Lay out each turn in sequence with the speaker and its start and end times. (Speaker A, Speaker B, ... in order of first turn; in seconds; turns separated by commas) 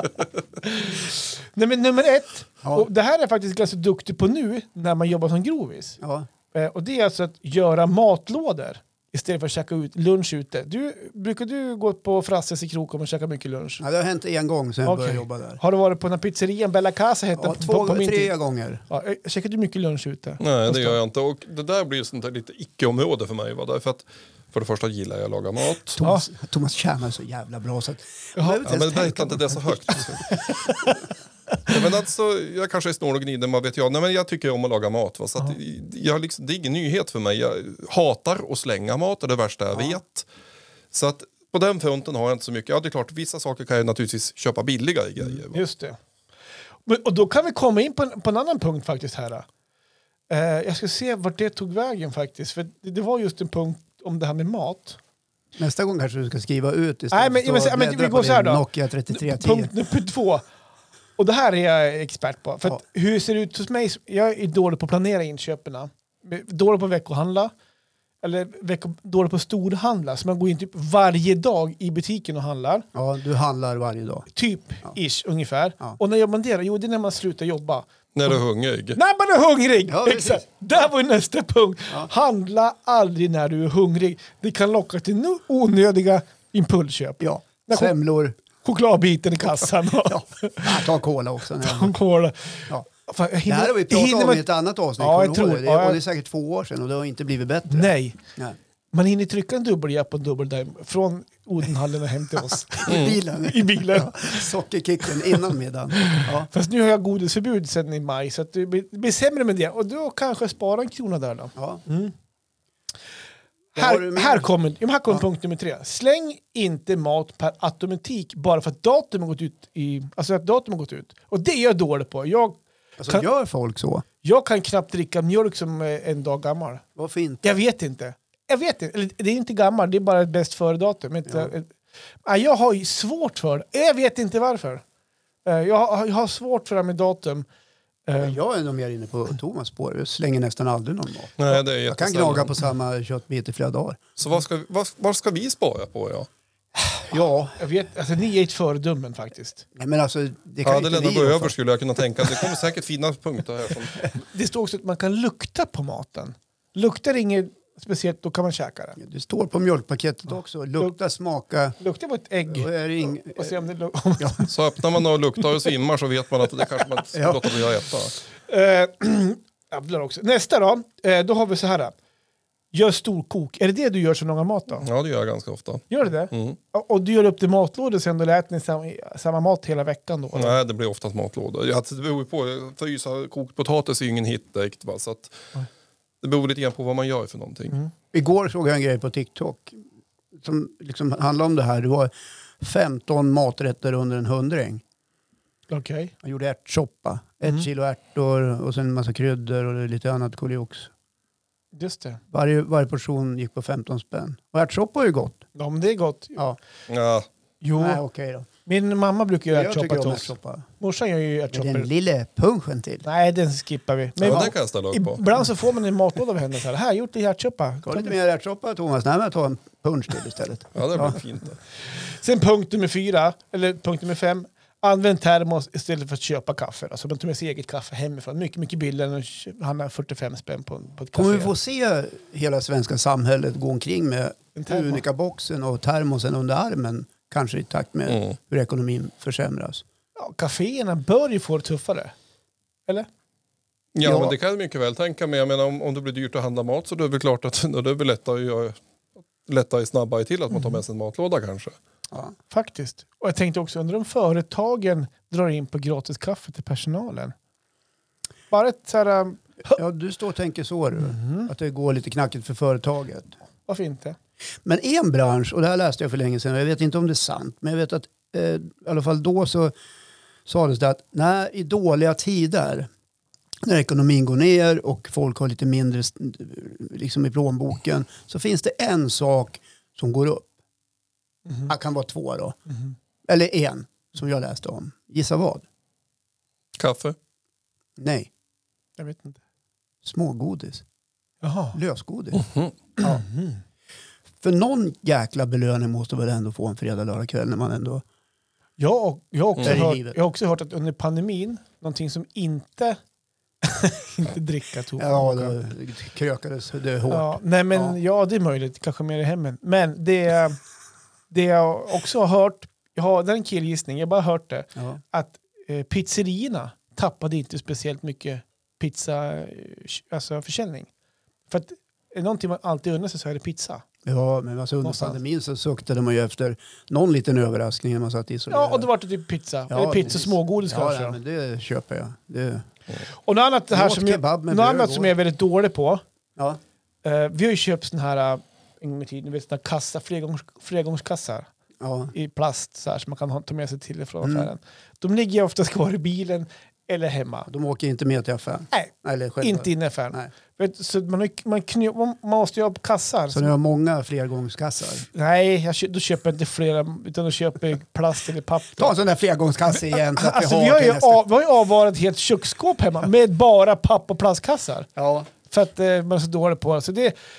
Speaker A: 0.6-6.0, Speaker B: 6.0-6.3, Speaker A: 6.5-13.8, Speaker B: 13.8-15.6, Speaker A: 14.8-18.3, Speaker B: 17.4-18.8, Speaker A: 18.9-21.0, Speaker C: 20.4-26.0, Speaker B: 26.0-30.1, Speaker A: 26.0-26.3, Speaker A: 28.4-28.6, Speaker C: 28.6-30.6, Speaker A: 30.3-30.9, Speaker C: 31.6-40.3, Speaker C: 40.9-45.6, Speaker A: 45.5-46.0, Speaker A: 46.9-49.5, Speaker A: 50.3-55.0, Speaker B: 55.6-59.7, Speaker A: 57.1-60.4, Speaker A: 61.2-67.5, Speaker A: 68.2-72.8, Speaker B: 72.9-74.3, Speaker A: 74.3-78.3, Speaker C: 78.1-79.0, Speaker A: 78.9-87.9, Speaker B: 79.9-80.4, Speaker B: 87.2-88.4, Speaker A: 88.6-90.8, Speaker B: 90.0-91.9, Speaker A: 91.6-94.5, Speaker B: 93.5-98.6, Speaker A: 95.0-96.0, Speaker A: 97.7-98.2, Speaker A: 98.9-104.4, Speaker B: 102.7-106.5, Speaker C: 102.9-103.2, Speaker A: 106.0-112.1, Speaker B: 111.5-111.8, Speaker A: 113.7-123.2, Speaker B: 113.8-114.5, Speaker B: 123.0-124.0, Speaker A: 124.2-126.8, Speaker B: 127.0-127.4, Speaker A: 127.4-131.7, Speaker A: 132.2-134.8, Speaker A: 135.4-137.5, Speaker A: 138.1-138.4, Speaker B: 138.2-144.0, Speaker C: 141.4-142.6, Speaker C: 144.2-146.3, Speaker B: 147.0-147.6, Speaker A: 147.6-149.7, Speaker B: 149.7-151.5, Speaker C: 150.6-154.1, Speaker A: 154.2-159.0, Speaker B: 159.0-161.8, Speaker A: 161.8-162.7, Speaker B: 162.5-163.6, Speaker A: 163.3-164.5, Speaker B: 164.2-164.4, Speaker C: 164.5-168.1, Speaker B: 167.1-167.4, Speaker A: 168.5-171.9, Speaker A: 172.7-174.8, Speaker C: 174.8-176.6, Speaker A: 175.9-180.6, Speaker C: 180.3-185.5, Speaker C: 186.2-187.8, Speaker B: 188.1-189.8, Speaker B: 190.4-194.8, Speaker A: 195.7-196.1, Speaker B: 196.2-200.9, Speaker A: 201.7-202.2, Speaker B: 202.3-205.4, Speaker A: 205.6-206.4, Speaker C: 206.9-207.3, Speaker A: 207.6-208.0, Speaker B: 207.8-208.5, Speaker A: 208.7-211.9, Speaker B: 209.5-210.7, Speaker B: 211.5-213.0, Speaker A: 213.0-218.1, Speaker C: 214.2-215.2, Speaker B: 217.8-221.2, Speaker C: 220.7-221.6, Speaker A: 222.0-231.5, Speaker B: 231.1-239.8, Speaker A: 234.5-235.0, Speaker C: 238.1-238.3, Speaker A: 240.2-242.1, Speaker C: 243.9-248.8, Speaker B: 244.0-244.3, Speaker C: 249.4-251.8, Speaker A: 250.5-250.8, Speaker A: 252.5-257.3, Speaker A: 258.5-259.8, Speaker B: 259.7-263.4, Speaker A: 261.0-261.5, Speaker A: 263.7-264.1, Speaker B: 264.6-269.7, Speaker B: 270.4-272.9, Speaker B: 273.6-280.5, Speaker B: 281.7-282.6, Speaker B: 283.3-285.6, Speaker C: 286.7-287.1, Speaker B: 288.0-288.3, Speaker A: 289.0-289.4, Speaker B: 290.0-290.8, Speaker A: 291.4-291.8, Speaker B: 291.7-292.4, Speaker C: 292.4-292.7, Speaker B: 293.0-293.2, Speaker A: 293.0-293.6, Speaker B: 294.4-298.0, Speaker A: 298.8-303.0, Speaker B: 299.6-300.2, Speaker A: 303.6-305.5, Speaker B: 305.0-307.9, Speaker A: 307.1-310.6, Speaker A: 311.3-320.9, Speaker A: 321.5-323.8, Speaker B: 324.0-328.9, Speaker A: 324.8-325.2, Speaker A: 328.5-331.2, Speaker B: 329.7-332.6, Speaker A: 333.2-336.0, Speaker B: 333.7-335.1, Speaker A: 337.0-341.5, Speaker B: 341.8-342.1, Speaker A: 342.1-347.5, Speaker B: 344.2-344.5, Speaker B: 347.5-350.3, Speaker A: 348.7-353.5, Speaker B: 353.3-355.1, Speaker A: 355.1-358.9, Speaker B: 358.8-361.2, Speaker A: 359.9-364.9, Speaker B: 364.9-365.3, Speaker A: 365.5-367.1